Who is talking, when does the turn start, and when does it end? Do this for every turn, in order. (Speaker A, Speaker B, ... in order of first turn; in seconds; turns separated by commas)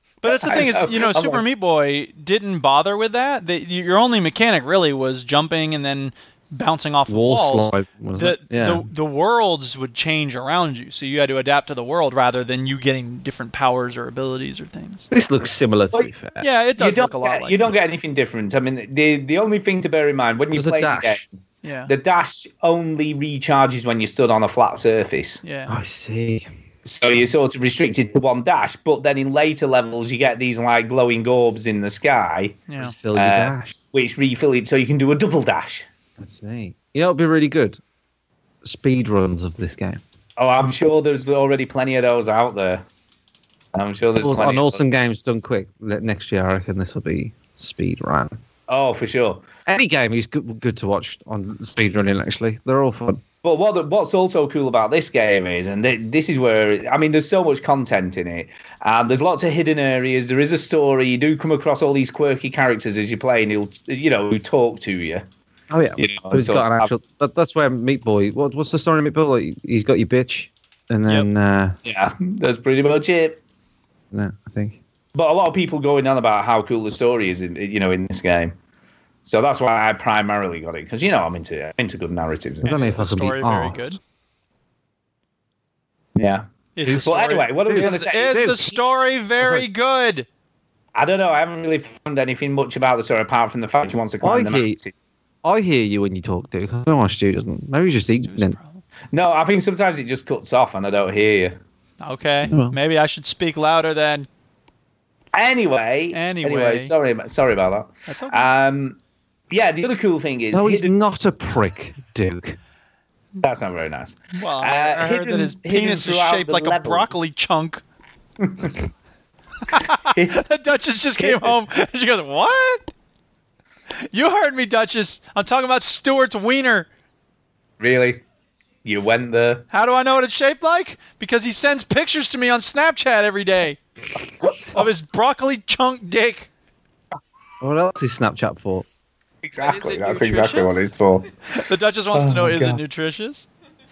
Speaker A: 0.2-15.1, Speaker B: 0.2-1.4, Speaker C: 7.1-8.9, Speaker C: 15.1-16.5, Speaker A: 16.4-17.7, Speaker B: 16.8-21.4, Speaker C: 20.5-21.2, Speaker A: 21.6-21.9, Speaker B: 21.9-25.4, Speaker A: 25.4-25.7, Speaker C: 25.7-26.5, Speaker B: 26.9-32.6, Speaker A: 32.7-32.9, Speaker C: 32.8-33.8, Speaker B: 33.1-35.9, Speaker C: 36.2-37.8, Speaker C: 38.6-40.0, Speaker B: 40.4-42.8, Speaker B: 43.7-44.9, Speaker C: 44.2-48.4, Speaker B: 48.7-49.4, Speaker C: 49.7-53.2, Speaker B: 53.4-65.2, Speaker C: 65.7-71.8, Speaker B: 66.0-66.9, Speaker B: 71.8-73.4, Speaker C: 74.1-74.8, Speaker B: 75.2-78.5, Speaker B: 79.2-82.9, Speaker A: 82.6-84.0, Speaker C: 82.6-84.0, Speaker B: 86.2-86.4, Speaker A: 86.8-90.3, Speaker C: 86.8-87.1, Speaker B: 87.0-88.5, Speaker C: 87.7-88.8, Speaker B: 91.0-94.9, Speaker C: 94.2-94.8, Speaker C: 95.4-98.6, Speaker A: 98.1-98.8, Speaker B: 99.1-101.6, Speaker A: 102.0-104.3, Speaker C: 102.5-102.8, Speaker B: 105.3-109.0, Speaker A: 106.1-106.9, Speaker A: 108.1-108.5, Speaker B: 109.5-110.9, Speaker C: 110.5-112.6, Speaker B: 113.4-117.1, Speaker A: 114.3-117.8, Speaker B: 118.4-118.8, Speaker A: 119.7-122.8, Speaker B: 120.1-120.4, Speaker B: 121.2-121.6, Speaker A: 124.1-126.9, Speaker B: 127.8-128.2, Speaker B: 128.8-129.7, Speaker A: 129.7-133.8, Speaker A: 134.7-136.5, Speaker C: 137.6-138.9, Speaker B: 139.4-141.3, Speaker A: 139.6-140.9, Speaker A: 141.5-143.5, Speaker B: 142.1-142.8